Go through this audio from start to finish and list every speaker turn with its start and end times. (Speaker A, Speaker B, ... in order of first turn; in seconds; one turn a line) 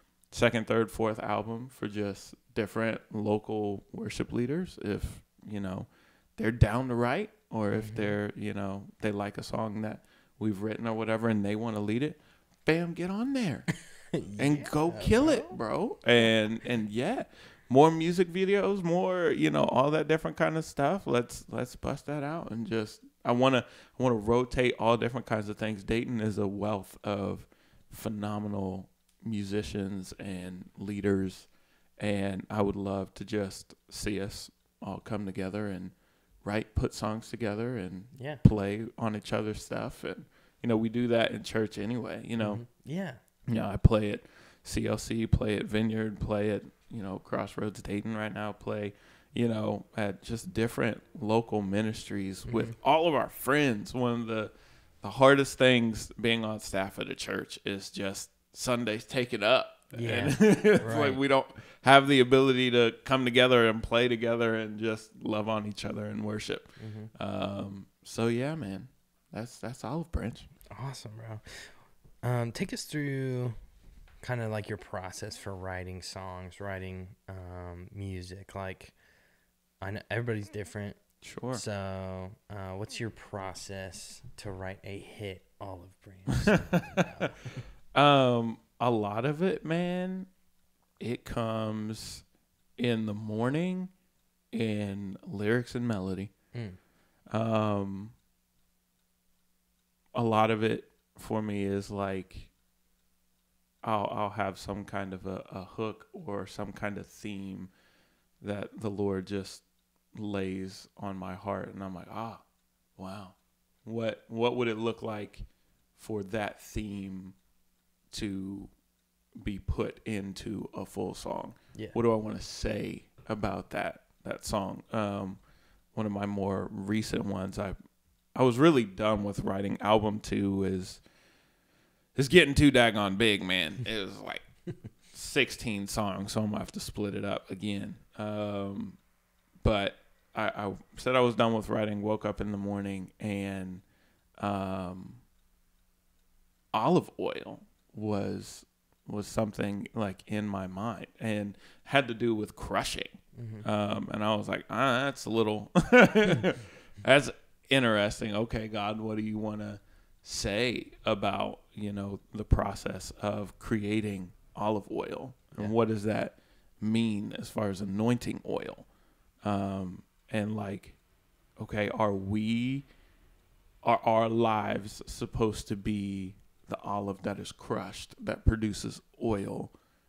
Speaker A: 0.3-13.7
Speaker B: 7.7-8.2
Speaker B: 14.1-15.6
Speaker A: 14.4-42.6
Speaker B: 38.1-38.4
Speaker B: 42.4-43.2
Speaker A: 43.5-70.5
Speaker B: 52.5-52.7
Speaker B: 59.9-61.2
Speaker B: 66.8-67.1
Speaker B: 70.7-73.5
Speaker B: 74.2-78.9
Speaker B: 79.8-81.0
Speaker A: 81.2-81.6
Speaker B: 81.5-87.6
Speaker A: 86.3-87.3
Speaker A: 87.9-90.3
Speaker A: 91.0-92.2
Speaker A: 92.8-93.9
Speaker A: 94.5-96.3
Speaker A: 97.3-98.1
Speaker A: 100.1-102.5
Speaker A: 103.8-107.7
Speaker A: 108.4-112.4
Speaker A: 113.0-115.5
Speaker A: 116.0-117.3
Speaker A: 118.1-118.7
Speaker A: 119.4-125.4
Speaker A: 125.9-127.8
Speaker A: 128.3-131.0
Speaker A: 132.1-134.4
Speaker A: 135.1-139.0
Speaker A: 139.6-143.8
Speaker A: 144.4-145.2
Speaker A: 146.7-168.8
Speaker B: 153.3-153.6
Speaker A: 169.4-170.9
Speaker A: 171.6-172.9
Speaker A: 173.8-179.7